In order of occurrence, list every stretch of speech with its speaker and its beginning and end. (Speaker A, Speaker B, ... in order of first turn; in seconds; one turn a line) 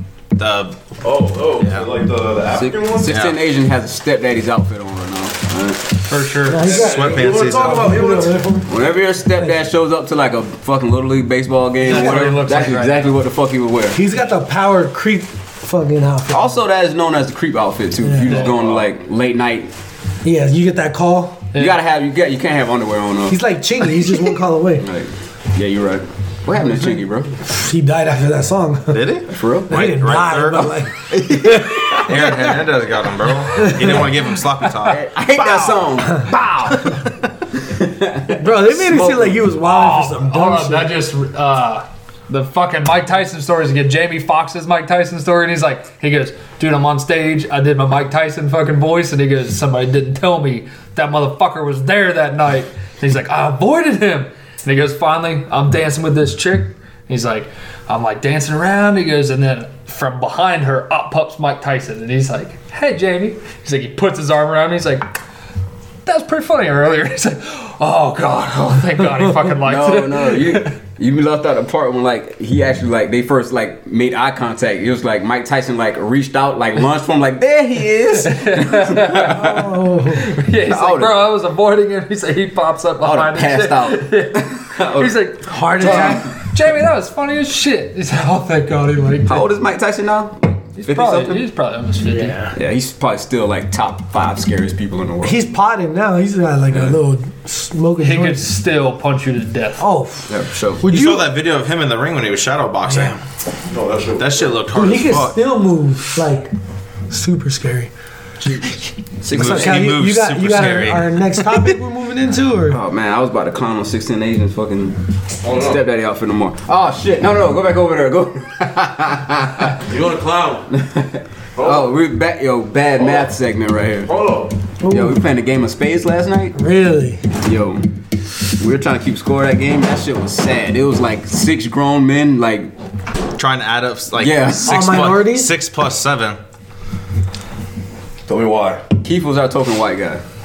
Speaker A: 0.3-0.8
Speaker B: 1.0-3.2
Speaker A: 1.6-1.9
Speaker C: 2.5-6.0
Speaker A: 3.1-3.4
Speaker D: 6.1-6.7
Speaker E: 6.5-8.7
Speaker B: 6.6-8.6
Speaker A: 6.7-7.9
Speaker C: 8.7-14.0
Speaker D: 11.8-13.1
Speaker E: 11.9-12.4
Speaker E: 13.9-16.6
Speaker C: 16.3-19.7
Speaker E: 18.0-18.4
Speaker B: 18.4-18.8
Speaker E: 20.2-21.5
Speaker C: 21.6-23.4
Speaker E: 23.3-24.9
Speaker C: 24.8-27.3
Speaker E: 27.4-32.7
Speaker A: 28.9-35.9
Speaker C: 29.3-29.8
Speaker E: 33.4-34.1
Speaker C: 34.8-37.0
Speaker C: 37.6-39.4
Speaker E: 38.3-41.0
Speaker D: 39.6-65.1
Speaker D: 66.0-70.7
Speaker C: 69.6-79.7
Speaker D: 78.2-79.5
Speaker E: 79.2-80.2
Speaker D: 80.1-89.5
Speaker C: 80.6-81.3
Speaker C: 83.0-85.3
Speaker E: 85.5-86.3
Speaker C: 85.8-86.2
Speaker C: 89.3-91.5
Speaker D: 90.8-92.4
Speaker E: 92.0-92.5
Speaker C: 92.5-95.4
Speaker E: 95.2-98.5
Speaker D: 98.0-99.8
Speaker E: 99.8-101.3
Speaker C: 100.3-100.9
Speaker A: 100.8-103.2
Speaker E: 102.8-103.2
Speaker B: 103.7-104.6
Speaker A: 104.2-105.4
Speaker E: 104.7-106.5
Speaker E: 107.1-107.9
Speaker C: 109.2-109.9
Speaker E: 109.3-112.8
Speaker A: 109.3-111.7
Speaker C: 112.7-119.8
Speaker B: 115.4-115.8
Speaker B: 119.8-120.7
Speaker C: 120.7-124.1
Speaker B: 121.5-121.9
Speaker B: 123.0-123.3
Speaker B: 124.0-124.5
Speaker E: 124.8-125.2
Speaker C: 124.9-126.6
Speaker E: 126.5-127.3
Speaker C: 127.4-127.8
Speaker C: 128.6-132.7
Speaker A: 133.4-136.4
Speaker C: 134.2-134.8
Speaker E: 134.6-135.5
Speaker B: 138.3-138.8
Speaker C: 139.0-140.2